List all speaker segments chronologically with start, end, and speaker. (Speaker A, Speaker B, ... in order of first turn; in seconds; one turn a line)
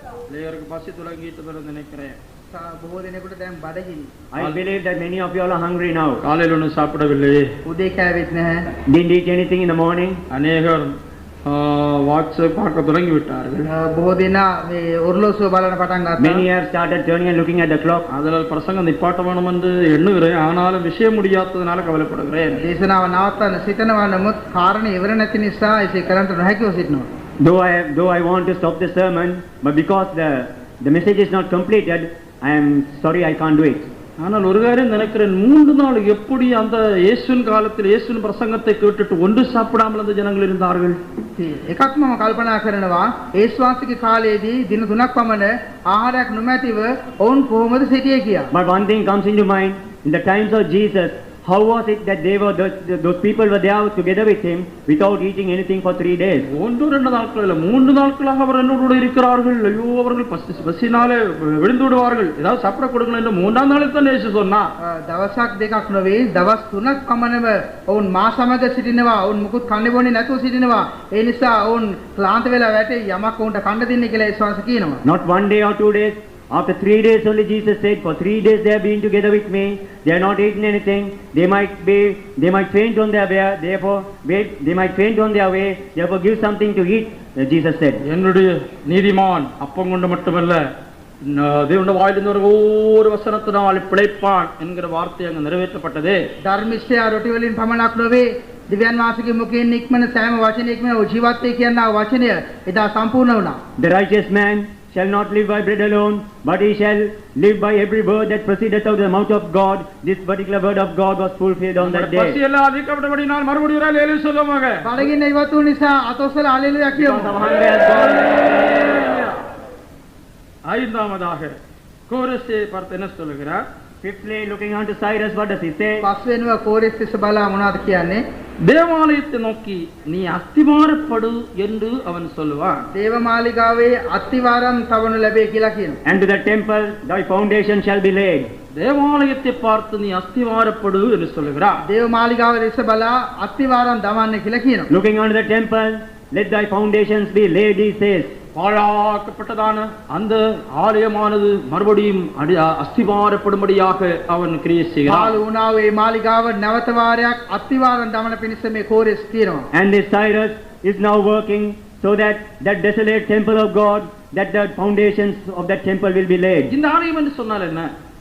Speaker A: 0.3-2.2
Speaker B: 2.5-4.1
Speaker C: 4.3-6.2
Speaker A: 6.2-7.5
Speaker B: 7.7-8.7
Speaker C: 8.9-10.2
Speaker A: 10.3-13.7
Speaker B: 13.7-16.5
Speaker C: 16.2-18.1
Speaker A: 18.1-22.6
Speaker B: 22.6-27.1
Speaker C: 27.4-33.9
Speaker A: 34.2-41.0
Speaker B: 41.4-48.5
Speaker C: 48.5-56.5
Speaker A: 56.5-64.7
Speaker B: 64.8-75.0
Speaker C: 75.0-88.0
Speaker A: 88.1-90.6
Speaker A: 91.2-96.2
Speaker B: 96.5-103.6
Speaker C: 103.8-112.4
Speaker A: 111.8-114.9
Speaker B: 114.8-117.3
Speaker C: 117.0-118.6
Speaker A: 118.4-119.4
Speaker A: 120.7-121.6
Speaker A: 122.1-123.6
Speaker C: 124.0-126.1
Speaker B: 126.0-128.2
Speaker A: 128.6-132.9
Speaker B: 132.9-136.0
Speaker C: 136.1-138.5
Speaker A: 138.7-141.8
Speaker B: 141.8-144.9
Speaker C: 144.9-148.3
Speaker A: 148.6-155.4
Speaker B: 155.1-159.7
Speaker C: 159.7-166.7
Speaker A: 166.7-167.9